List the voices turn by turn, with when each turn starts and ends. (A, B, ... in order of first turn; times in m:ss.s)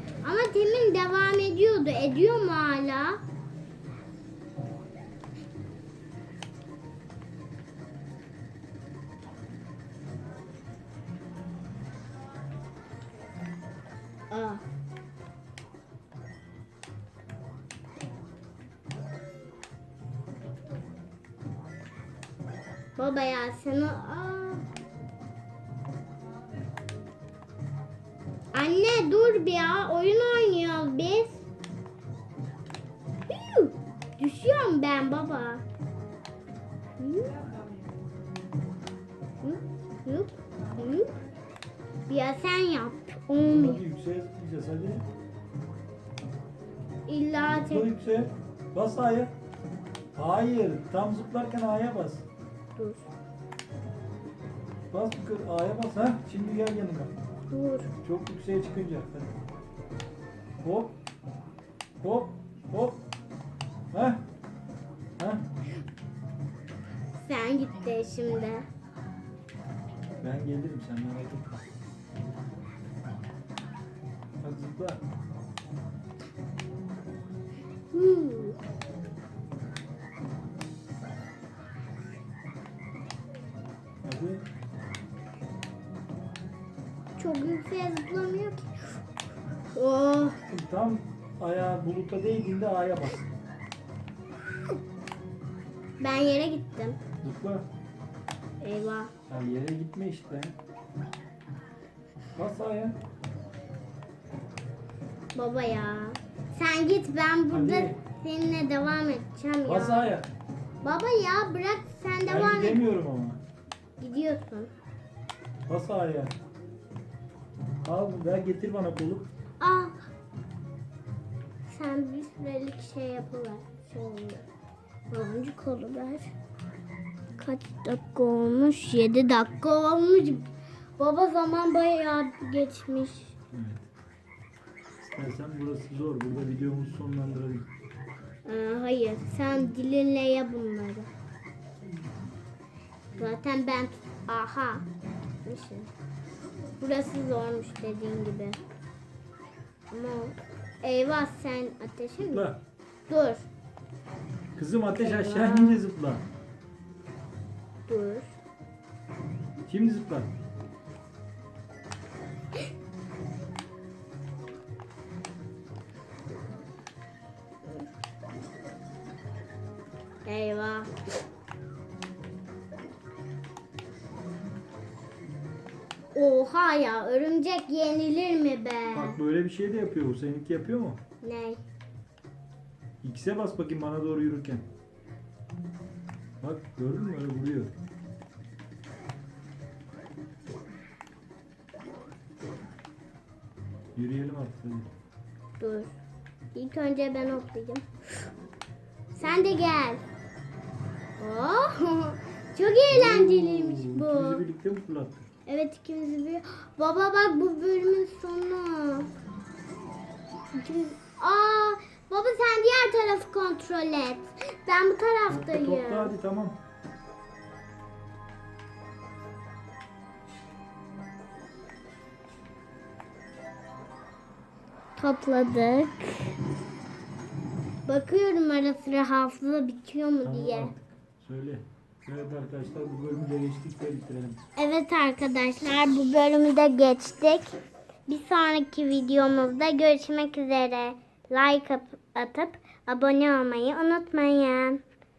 0:00.2-0:03.2 A
0:14.3-0:14.6 A
0:23.0-0:24.7 A
0:28.5-0:31.4 A
0:33.3-0:35.6 A
0:37.0-0:37.5 A
0:39.4-0:41.1 A
0:42.1-0:43.8 A
0:43.4-0:45.0 B
0:47.1-0:47.9 A
0:47.5-0:49.3 B
0:50.2-0:52.2 B
0:52.8-0:53.1 A
0:54.9-0:57.1 B
0:57.5-0:57.9 A
0:58.0-0:59.4 B
1:00.6-1:01.0 B
1:02.0-1:03.0 B
1:03.9-1:04.2 B
1:05.2-1:05.4 B
1:07.2-1:08.6 A
1:10.2-1:11.6 B
1:14.4-1:15.0 B
1:17.9-1:18.6 A
1:24.0-1:24.4 B
1:27.2-1:29.0 A
1:29.7-1:30.4 A
1:30.4-1:33.3 B
1:36.0-1:37.0 A
1:37.2-1:37.7 B
1:38.6-1:39.1 A
1:39.3-1:40.6 B
1:42.4-1:43.0 B
1:45.3-1:50.1 A
1:47.5-1:48.0 B
1:49.7-1:50.3 B
1:50.8-1:52.8 A
1:52.3-1:53.4 B
1:54.0-1:54.7 A
1:55.7-1:56.4 B
1:57.8-1:59.3 B
1:59.6-2:00.0 A
2:01.6-2:04.4 A
2:05.1-2:06.3 A
2:07.4-2:10.5 A
2:11.0-2:13.4 A
2:13.5-2:13.9 B
2:15.0-2:17.7 B
2:18.4-2:21.1 A
2:23.2-2:24.9 A
2:25.4-2:25.9 A
2:26.8-2:28.6 A
2:29.9-2:32.5 A
2:32.3-2:32.6 B
2:33.1-2:33.5 A
2:34.6-2:36.2 B
2:35.0-2:35.8 A
2:37.9-2:38.4 A
2:39.7-2:40.3 B
2:50.2-2:50.9 A
2:56.1-2:59.2 A
2:58.9-3:01.0 B
3:01.2-3:01.6 A
3:03.0-3:04.7 B
3:06.4-3:07.7 B
3:14.0-3:14.9 B
3:15.6-3:16.0 A
3:16.6-3:18.3 A
3:19.1-3:20.0 A
3:21.2-3:24.4 A
3:22.9-3:25.2 B
3:25.5-3:29.1 A
3:30.5-3:36.2 A
3:35.3-3:36.6 B
3:45.0-3:46.3 A
3:47.9-3:50.7 A
3:50.2-3:54.4 B
3:54.6-3:57.6 A
3:58.1-4:04.8 A